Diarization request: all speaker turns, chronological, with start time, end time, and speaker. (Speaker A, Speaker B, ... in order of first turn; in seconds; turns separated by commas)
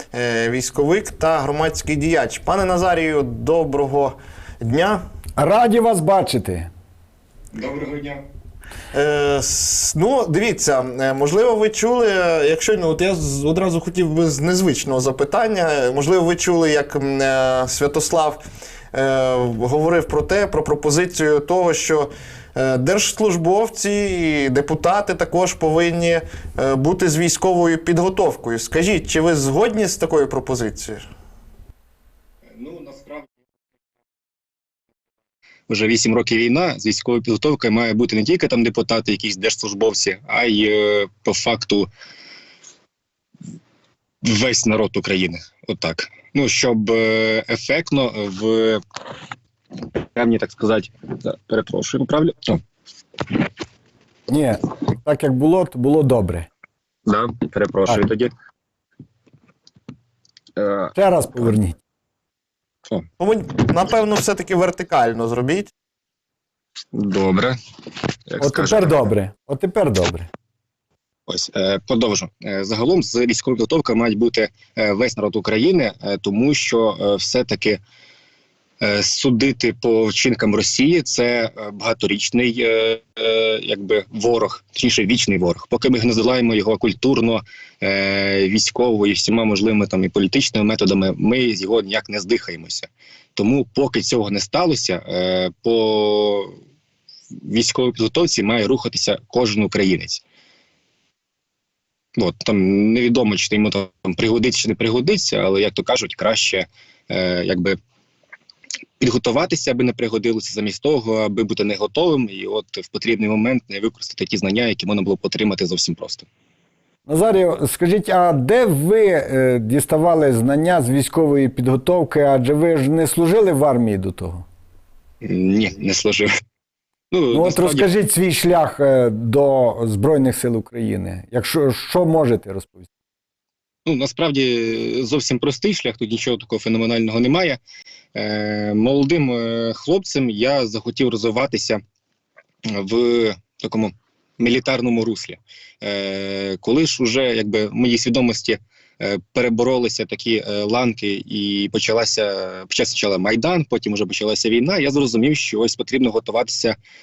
Speaker A: 0.1-5.0, Speaker B: 5.4-6.7, Speaker C: 7.5-8.2, Speaker A: 8.9-18.4, Speaker A: 18.9-31.1, Speaker C: 32.5-33.3, Speaker C: 35.7-41.9, Speaker C: 44.2-48.8, Speaker C: 50.1-52.6, Speaker B: 54.3-56.5, Speaker C: 57.1-58.3, Speaker C: 60.6-60.9, Speaker B: 60.9-61.8, Speaker A: 63.2-65.7, Speaker C: 66.9-67.5, Speaker C: 68.3-69.0, Speaker B: 68.4-70.3, Speaker C: 71.3-77.8, Speaker C: 78.8-96.5, Speaker C: 97.4-100.2, Speaker C: 102.2-107.8, Speaker C: 109.0-116.3, Speaker B: 117.1-124.5, Speaker C: 125.2-126.3, Speaker C: 127.1-127.9, Speaker B: 127.3-132.9, Speaker C: 133.9-137.6, Speaker C: 138.2-141.8, Speaker C: 142.7-156.8